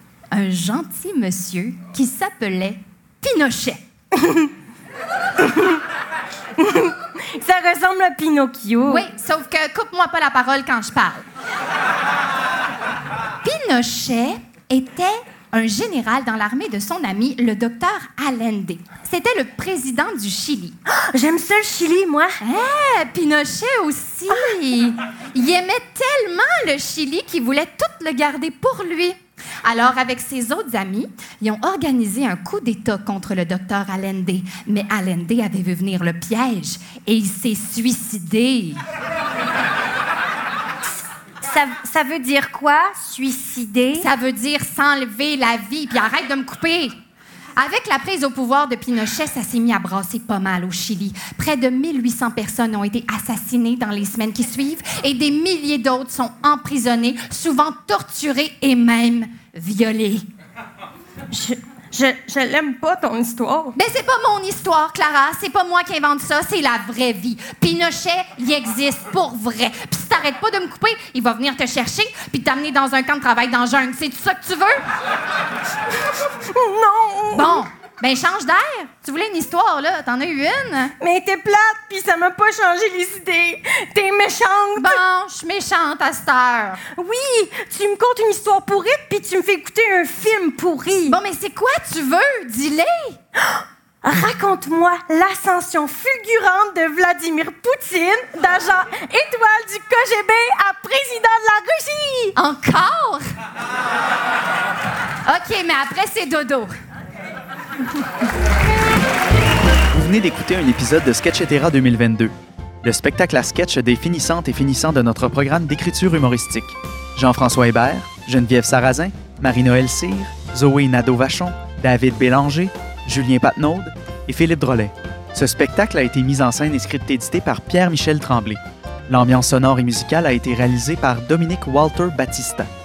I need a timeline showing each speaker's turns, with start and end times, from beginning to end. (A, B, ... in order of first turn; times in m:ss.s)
0:00.3-0:03.8 A
0:05.4-0:05.7 B
0:06.6-0:09.0 B
0:08.9-0:11.2 A
0:13.4-0:20.8 A
0:21.1-0:22.3 B
0:22.4-0:38.8 A
0:41.4-0:44.0 B
0:44.0-0:46.9 A
0:47.6-1:00.2 A
1:01.3-1:03.7 B
1:03.7-1:14.8 A
1:16.5-1:17.5 B
1:17.3-1:20.9 A
1:21.0-1:24.9 B
1:24.8-1:26.8 A
1:27.0-1:31.2 B
1:31.0-1:33.2 A
1:33.5-1:42.1 B
1:42.4-1:43.2 A
1:45.2-1:46.7 A
1:49.9-2:12.7 C